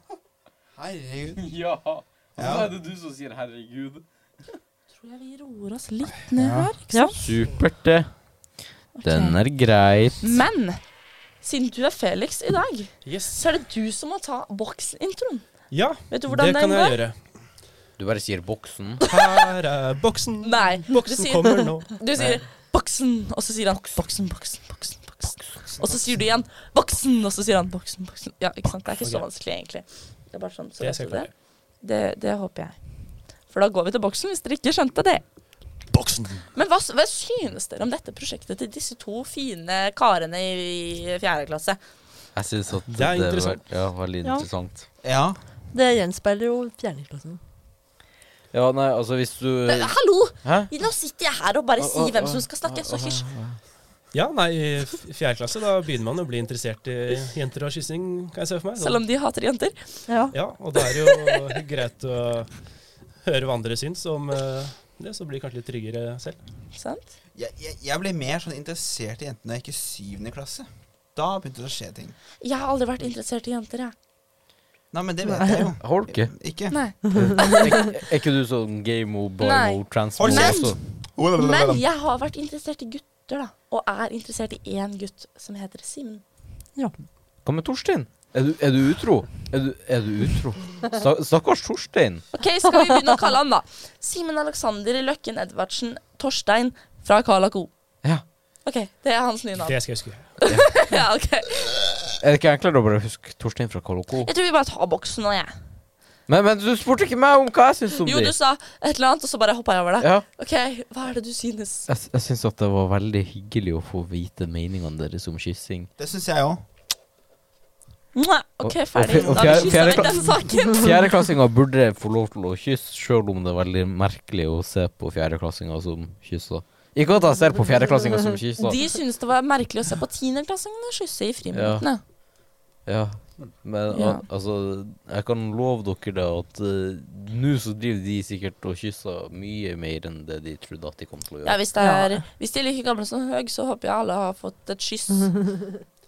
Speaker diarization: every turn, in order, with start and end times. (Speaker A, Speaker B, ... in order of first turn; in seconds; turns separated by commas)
Speaker A: 0.8-1.4, Speaker B: 1.4-4.0, Speaker A: 2.4-2.7, Speaker C: 5.0-7.2, Speaker A: 6.4-6.7, Speaker D: 6.9-7.2, Speaker B: 7.2-8.1, Speaker C: 8.9-9.4, Speaker B: 9.0-10.4, Speaker C: 10.2-10.8, Speaker C: 11.4-15.5, Speaker E: 13.0-13.4, Speaker E: 15.7-17.2, Speaker C: 16.1-17.0, Speaker B: 18.0-19.1, Speaker E: 19.0-22.4, Speaker C: 20.4-32.8, Speaker E: 29.0-29.2, Speaker E: 30.8-31.3, Speaker C: 33.5-35.2, Speaker E: 35.9-36.5, Speaker C: 36.5-41.8, Speaker B: 42.3-44.9, Speaker E: 42.9-43.6, Speaker A: 45.0-45.4, Speaker D: 45.7-47.4, Speaker B: 48.5-50.7, Speaker C: 49.6-53.2, Speaker B: 51.8-53.6, Speaker E: 54.1-59.0, Speaker C: 58.8-59.9, Speaker D: 60.1-60.3, Speaker E: 60.3-62.5, Speaker C: 61.0-61.3, Speaker E: 63.2-66.4, Speaker C: 66.7-67.1, Speaker A: 67.3-72.1, Speaker C: 72.4-73.9, Speaker A: 74.9-76.8, Speaker D: 75.2-75.7, Speaker B: 75.8-76.3, Speaker C: 76.7-77.6, Speaker D: 77.1-77.7, Speaker B: 77.2-80.8, Speaker C: 79.4-80.7, Speaker A: 80.2-81.8, Speaker C: 81.3-86.2, Speaker B: 87.4-92.3, Speaker C: 92.4-97.7, Speaker C: 98.6-99.8, Speaker E: 99.6-100.3, Speaker C: 100.4-101.7, Speaker B: 100.5-100.7, Speaker B: 102.1-104.3, Speaker C: 104.2-105.5, Speaker B: 106.3-108.3, Speaker C: 108.0-111.9, Speaker B: 110.0-110.2, Speaker B: 111.9-115.9, Speaker A: 116.0-116.6, Speaker C: 118.1-121.1, Speaker B: 118.7-128.8, Speaker A: 119.2-120.0, Speaker C: 128.6-132.0, Speaker B: 131.5-131.8, Speaker B: 132.8-141.6, Speaker C: 133.9-134.2, Speaker C: 141.4-145.4, Speaker D: 141.8-142.2